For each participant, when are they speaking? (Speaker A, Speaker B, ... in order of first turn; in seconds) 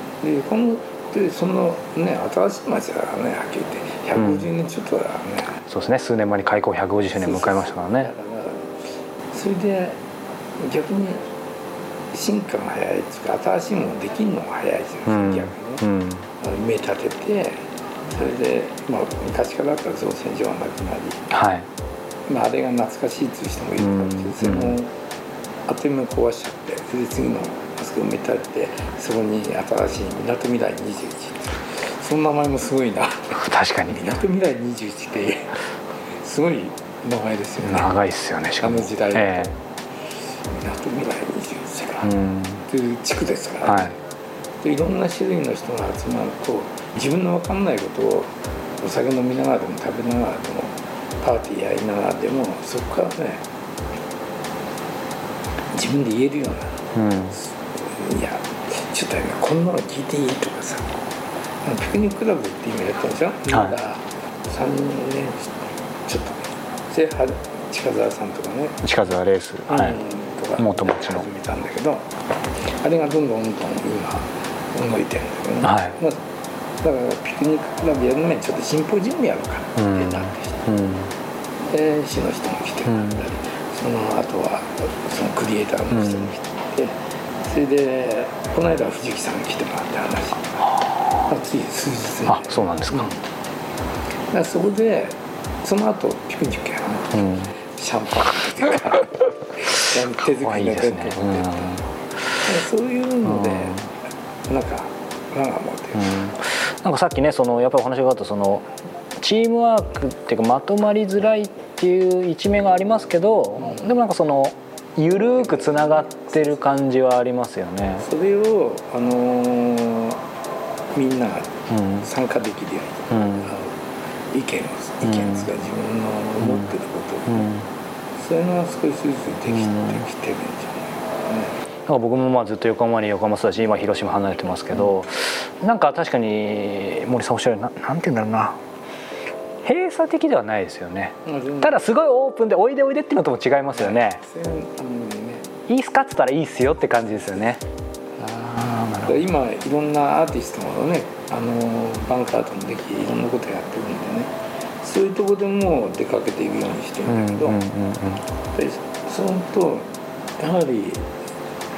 Speaker A: 0.2-5.6, 7.2-8.7, 9.3-10.0, 10.6-11.2, 12.1-15.8, 16.4-21.2, 22.3-24.9, 25.7-35.6, 36.2-38.0, 38.6-39.5, 40.5-42.1, 42.7-44.0, 44.6-53.4, 55.7-56.8, 57.3-60.9, 61.6-68.8, 69.7-72.1, 72.8-76.2, 76.8-80.7, 81.7-90.7, 91.3-93.2, 94.3-101.8, 102.4-103.9, 104.5-106.2, 113.6-114.0, 115.1-116.8, 118.0-120.2, 120.9-123.8, 124.3-127.5, 128.2-131.5, 141.2-141.8, 143.7-145.5, 148.3-157.6, 158.5-159.9, 160.4-161.1
Speaker B: 4.2-4.5, 5.7-8.1, 15.1-16.3, 21.3-21.7, 23.8-24.8, 33.4-34.0, 37.6-39.5, 42.0-42.6, 43.6-44.0, 56.9-57.4, 63.5-63.8, 68.8-70.0, 70.6-71.3, 75.6-76.0, 79.8-81.1, 82.9-83.2, 85.9-86.3, 92.3-93.1, 97.1-97.5, 100.4-101.9, 103.2-103.9, 106.0-108.7, 109.2-118.1, 121.7-122.1, 123.1-123.5, 125.0-125.5, 126.4-126.7, 127.3-127.7, 129.5-130.0, 131.9-138.6, 139.6-144.2, 145.7-147.6, 148.3-149.2, 157.1-158.2